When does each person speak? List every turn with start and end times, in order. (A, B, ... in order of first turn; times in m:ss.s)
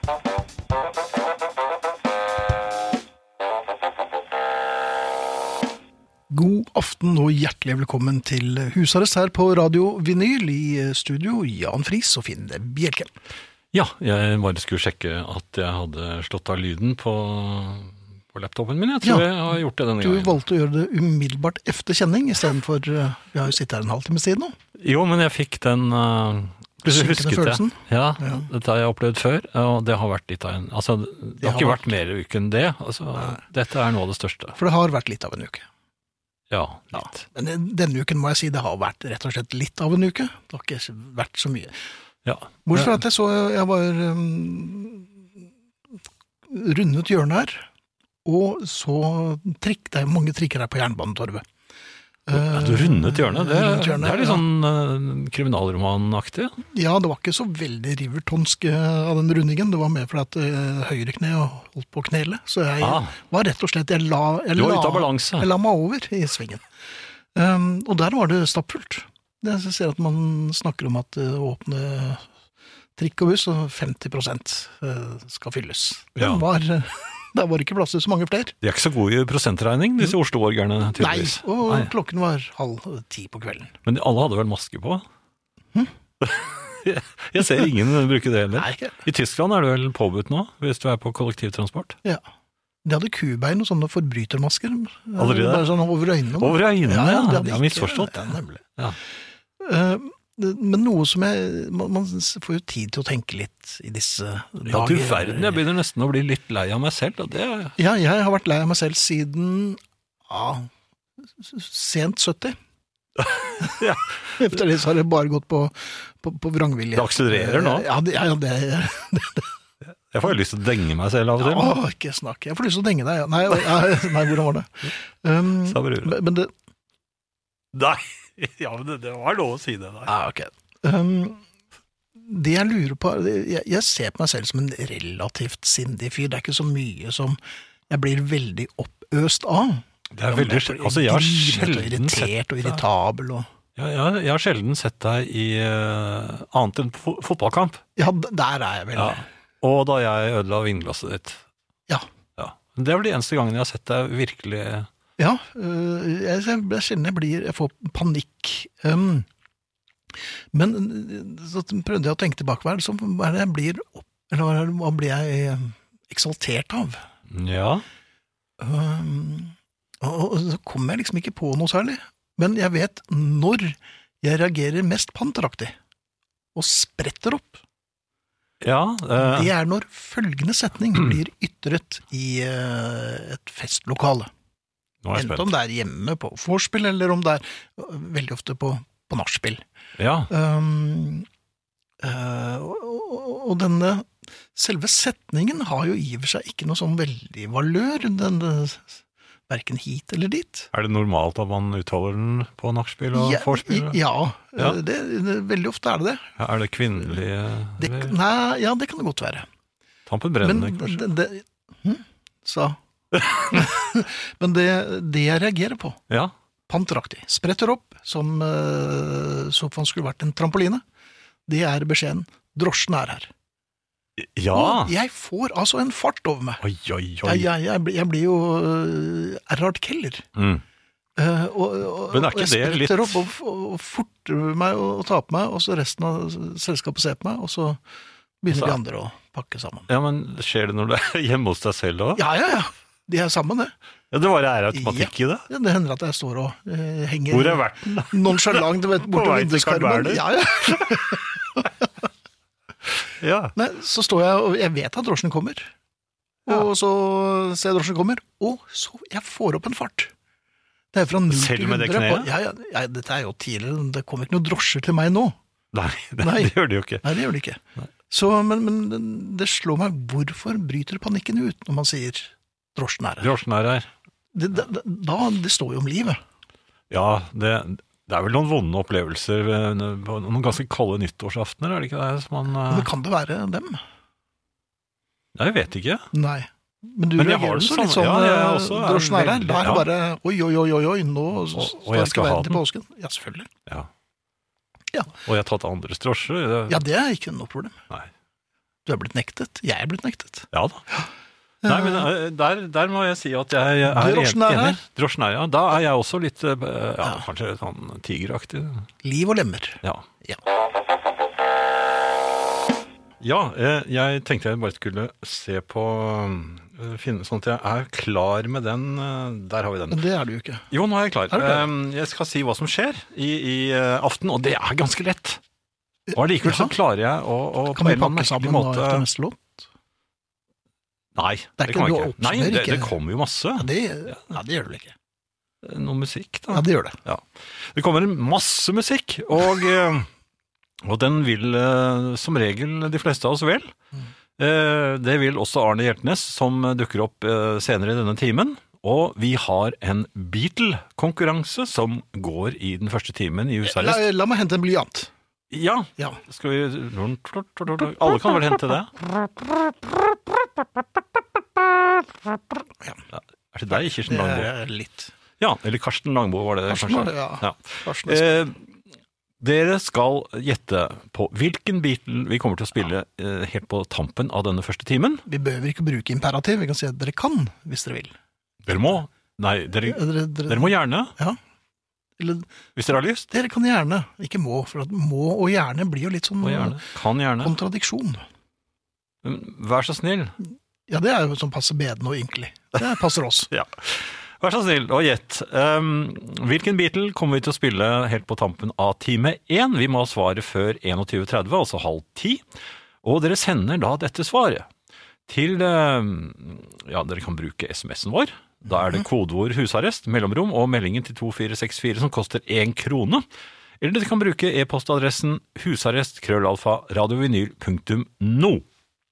0:06.3-0:13.1 A
0:13.7-0:20.4 B
0:19.0-0:24.6 A
0:24.8-0:34.6 B
0:26.8-0:28.5 A
0:31.4-0:31.9 A
0:34.6-0:35.7 A
0:36.5-0:37.2 B
0:36.9-0:41.7 A
0:42.2-0:43.0 B
0:42.7-0:45.2 A
0:46.5-0:47.7 A
0:48.2-0:51.4 A
0:52.3-0:54.4 A
0:52.3-0:56.6 B
0:56.7-1:06.6 A
1:02.8-1:03.2 B
1:04.6-1:05.5 B
1:07.3-1:12.3 A
1:13.0-1:18.6 A
1:16.2-1:16.4 B
1:18.6-1:21.9 B
1:21.0-1:23.8 A
1:23.9-1:25.0 B
1:26.2-1:32.0 B
1:28.6-1:29.0 A
1:32.8-1:38.6 A
1:35.2-1:35.7 B
1:36.4-1:38.3 B
1:39.6-1:45.6 A
1:44.7-1:47.8 B
1:47.8-1:50.7 A
1:51.4-1:52.6 A
1:53.2-1:54.5 B
1:53.6-1:53.9 A
1:54.4-1:59.5 A
1:57.0-1:57.9 B
2:00.1-2:01.8 B
2:01.4-2:06.5 A
2:05.6-2:06.2 B
2:07.7-2:10.1 B
2:10.1-2:11.4 A
2:12.2-2:23.5 A
2:20.1-2:22.8 B
2:23.8-2:27.8 B
2:28.0-2:29.2 A
2:29.0-2:31.4 B
2:32.4-2:34.9 B
2:35.2-2:39.3 A
2:40.5-2:47.0 A
2:47.3-2:47.8 B
2:48.6-2:55.8 A
2:56.6-2:57.6 A
2:58.6-2:59.5 B
2:59.2-3:04.3 A
3:05.0-3:05.5 B
3:05.2-3:09.6 A
3:10.0-3:10.3 B
3:10.3-3:11.3 A
3:12.0-3:20.7 A
3:20.7-3:24.0 B
3:23.1-3:26.4 A
3:26.4-3:28.2 B
3:27.8-3:29.5 A
3:30.1-3:31.0 B
3:30.4-3:36.0 A
3:33.2-3:33.6 B
3:36.7-3:40.8 A
3:41.5-3:43.3 A
3:44.2-3:44.9 B
3:44.5-3:46.6 A
3:46.6-3:47.5 B
3:47.2-3:50.3 A
3:50.4-3:50.6 B
3:51.2-3:57.8 A
3:52.1-3:53.2 B
3:58.4-3:59.9 A
3:58.5-3:58.8 B
3:59.9-4:02.2 B
4:02.2-4:03.7 A
4:04.1-4:05.5 B
4:04.7-4:11.7 A
4:07.3-4:11.2 B
4:13.0-4:13.6 B
4:13.6-4:15.7 A
4:16.5-4:20.1 A
4:20.9-4:25.4 A
4:21.3-4:22.3 B
4:25.7-4:27.0 B
4:26.2-4:33.3 A
4:33.2-4:33.9 B
4:34.4-4:36.2 A
4:36.9-4:42.9 B
4:42.7-4:43.8 A
4:45.4-4:46.1 B
4:46.1-4:53.5 A
4:47.2-4:49.9 B
4:51.5-4:52.6 B
4:55.2-4:56.8 B
4:56.7-4:57.8 A
4:58.9-5:01.1 A
5:00.5-5:00.8 B
5:01.6-5:02.1 A
5:01.6-5:08.9 B
5:03.8-5:04.8 A
5:09.0-5:10.4 A
5:13.2-5:20.0 B
5:19.9-5:20.7 A
5:20.7-5:25.4 B
5:21.3-5:21.7 A
5:26.1-5:26.8 A
5:26.1-5:29.1 B
5:27.7-5:29.7 A
5:31.2-5:33.7 B
5:31.6-5:33.0 A
5:33.6-5:35.0 A
5:35.6-5:40.1 B
5:36.5-5:37.0 A
5:40.8-5:43.7 B
5:44.4-5:54.0 B
5:53.6-5:55.1 A
5:55.5-5:58.9 B
6:03.1-6:04.5 B
6:03.7-6:05.1 A
6:05.4-6:08.6 B
6:06.7-6:08.4 A
6:09.4-6:15.2 B
6:15.3-6:18.2 A
6:18.7-6:21.1 B
6:19.8-6:21.4 A
6:22.2-6:22.5 A
6:22.8-6:23.3 B
6:23.3-6:26.8 A
6:26.4-6:27.6 B
6:27.4-6:28.2 A
6:29.2-6:30.4 B
6:30.9-6:33.5 A
6:33.5-6:42.4 B
6:43.0-6:44.7 B
6:45.3-6:53.2 B
6:53.8-6:58.6 B